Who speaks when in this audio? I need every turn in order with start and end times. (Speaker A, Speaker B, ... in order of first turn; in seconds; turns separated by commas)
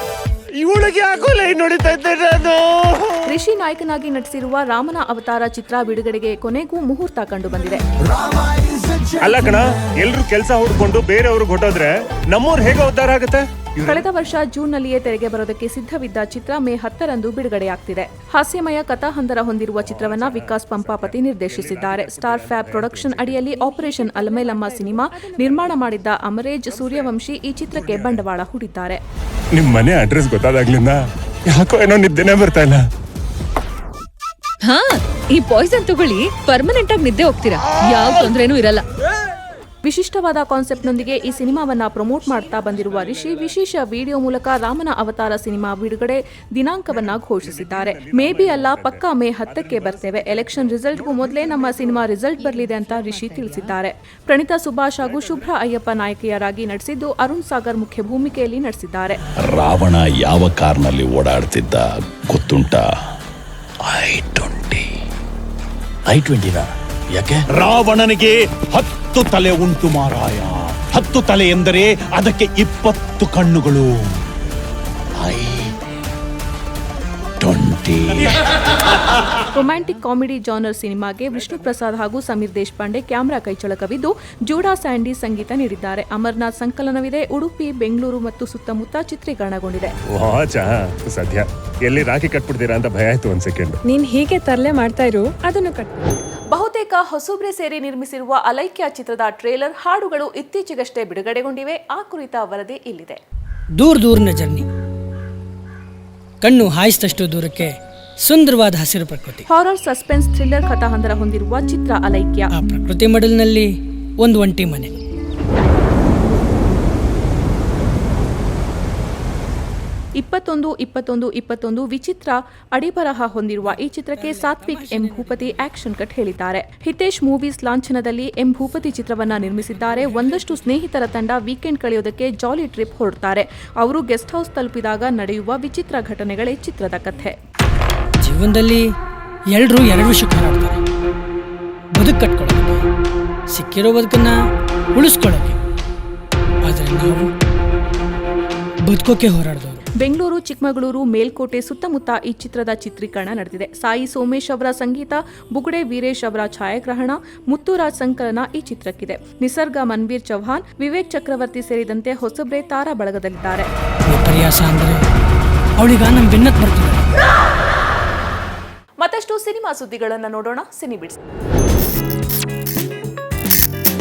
Speaker A: 0.6-3.3, Speaker B: 3.2-7.8, Speaker C: 8.6-9.1, Speaker A: 9.2-14.0, Speaker B: 13.8-29.0, Speaker A: 19.8-23.5, Speaker D: 23.5-25.1, Speaker E: 24.5-24.8, Speaker A: 26.7-27.1, Speaker A: 27.8-28.2, Speaker A: 29.5-32.8, Speaker E: 34.6-38.8, Speaker B: 39.8-59.2, Speaker A: 43.0-43.2, Speaker A: 47.4-52.1, Speaker D: 52.6-53.6, Speaker A: 55.0-55.4, Speaker C: 59.4-62.9, Speaker C: 63.8-64.9, Speaker C: 66.1-73.9, Speaker C: 75.2-75.7, Speaker C: 77.4-78.3, Speaker B: 79.5-89.9, Speaker A: 90.1-93.8, Speaker D: 93.8-96.1, Speaker B: 96.5-103.2, Speaker F: 103.8-104.7, Speaker F: 106.4-109.4, Speaker B: 109.5-112.5, Speaker F: 112.5-113.7, Speaker F: 114.2-115.0, Speaker B: 120.2-137.3, Speaker F: 124.2-125.6, Speaker F: 138.2-138.9, Speaker F: 139.5-140.8, Speaker F: 141.9-142.8, Speaker F: 143.5-144.3, Speaker F: 144.9-145.6, Speaker F: 146.6-147.3, Speaker F: 148.8-149.8, Speaker B: 150.0-163.7, Speaker F: 164.1-165.0, Speaker F: 165.8-167.1, Speaker B: 169.0-171.2